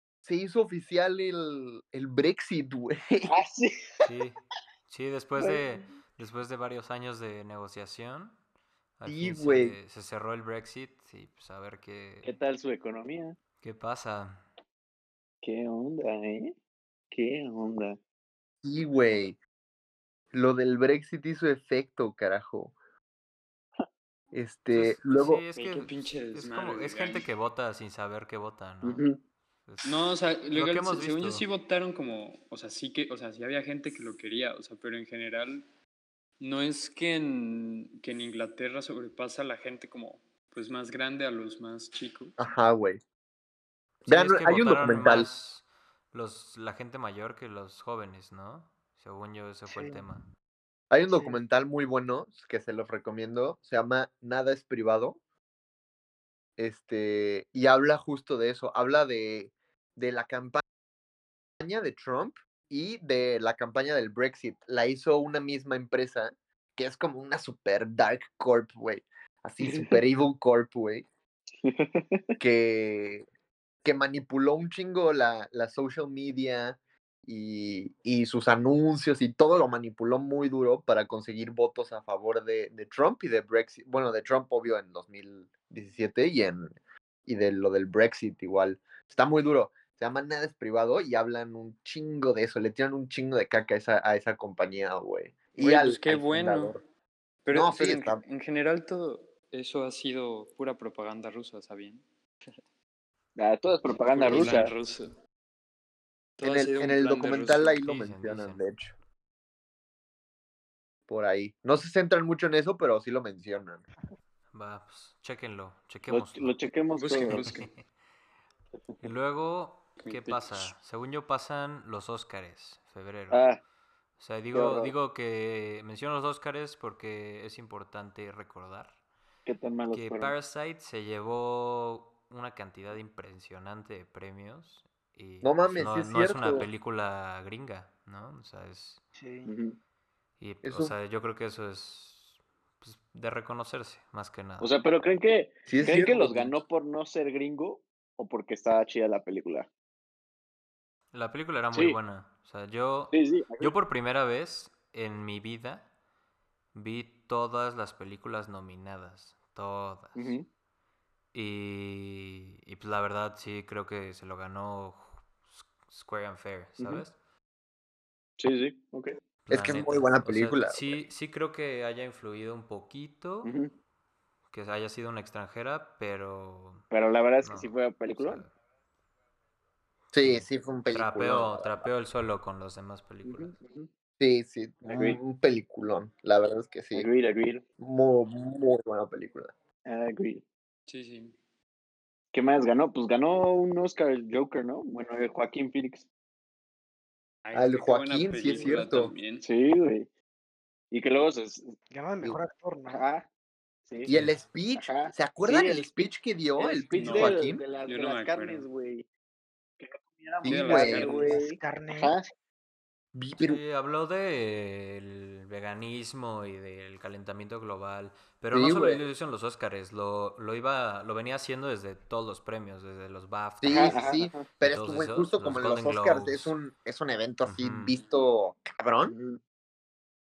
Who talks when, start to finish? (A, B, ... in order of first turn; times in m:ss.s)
0:00.2-0:03.3 A
0:03.3-0:04.0 B
0:04.0-0:08.4 C
0:05.4-0:05.7 B
0:09.0-0:12.4 C
0:09.0-0:09.8 A
0:12.2-0:13.4 B
0:13.6-0:14.4 C
0:15.4-0:16.6 B
0:17.1-0:18.0 B
0:18.6-0:19.4 A
0:20.3-0:22.8 A
0:24.3-0:25.4 A
0:24.7-0:29.1 C
0:25.5-0:27.3 D
0:28.8-0:29.2 B
0:29.7-0:31.4 C
0:29.8-0:35.6 D
0:36.4-0:42.4 D
0:42.4-0:43.0 A
0:44.0-0:50.3 C
0:44.1-0:45.3 A
0:49.7-0:50.0 E
0:50.9-0:55.2 A
0:51.1-0:51.4 E
0:56.6-1:00.6 A
1:01.6-1:11.1 A
1:09.6-1:10.0 B
1:11.6-1:12.2 B
1:12.4-1:13.2 A
1:13.8-1:26.7 A
1:27.3-1:36.8 A
1:35.6-1:36.8 D
1:37.4-1:42.0 D
1:37.5-1:38.2 A
1:43.4-1:44.7 B
1:43.9-1:45.2 D
1:46.4-1:47.8 D
1:46.4-1:48.9 A
1:47.6-1:48.6 C
1:51.1-1:53.8 A
1:54.5-1:56.6 C
1:56.1-1:57.5 B
1:57.0-1:57.7 D
1:57.3-1:57.8 C
1:59.0-2:03.5 C
2:00.0-2:00.8 D
2:03.3-2:03.6 B
2:04.2-2:09.0 C
2:04.5-2:04.9 B
2:09.5-2:10.3 B
2:09.9-2:19.0 C
2:15.4-2:16.7 A
2:19.2-2:19.5 E
2:19.5-2:19.8 B
2:20.4-2:24.7 C
2:20.6-2:20.9 A
2:24.6-2:29.7 B
2:25.7-2:26.5 A
2:31.1-2:35.9 C
2:31.7-2:32.0 B
2:33.1-2:33.7 B
2:36.7-2:40.4 C
2:40.2-2:40.5 B
2:41.3-2:47.2 C
2:46.8-2:47.0 B
2:48.4-2:49.2 B
2:49.5-2:53.5 C
2:49.5-2:51.0 A
2:53.4-2:53.7 B
2:54.5-2:56.9 C
2:56.9-2:58.4 B
2:57.4-2:58.5 C
3:00.1-3:01.9 A
3:00.2-3:03.6 C
3:03.2-3:03.9 B
3:04.2-3:07.1 A
3:04.9-3:05.2 B
3:06.9-3:07.6 B
3:07.8-3:09.5 A
3:09.9-3:10.4 B
3:10.9-3:11.4 D
3:12.3-3:16.1 B
3:17.4-3:19.4 D
3:17.5-3:19.1 A
3:19.4-3:20.1 B
3:20.9-3:21.8 B
3:21.9-3:23.0 E
3:22.9-3:23.3 B
3:23.9-3:24.1 B
3:24.1-3:27.6 A
3:24.1-3:24.4 C
3:24.8-3:25.9 B
3:26.6-3:29.1 B
3:27.0-3:28.7 D
3:29.8-3:32.3 B
3:30.4-3:31.1 A
3:30.4-3:31.4 D
3:31.2-3:32.2 E
3:33.1-3:33.6 A
3:33.4-3:44.1 C
3:38.5-3:39.0 A
3:43.6-3:49.2 A
3:43.7-3:44.4 B
3:44.6-3:46.5 C
3:47.4-3:48.0 C
3:49.1-3:49.4 B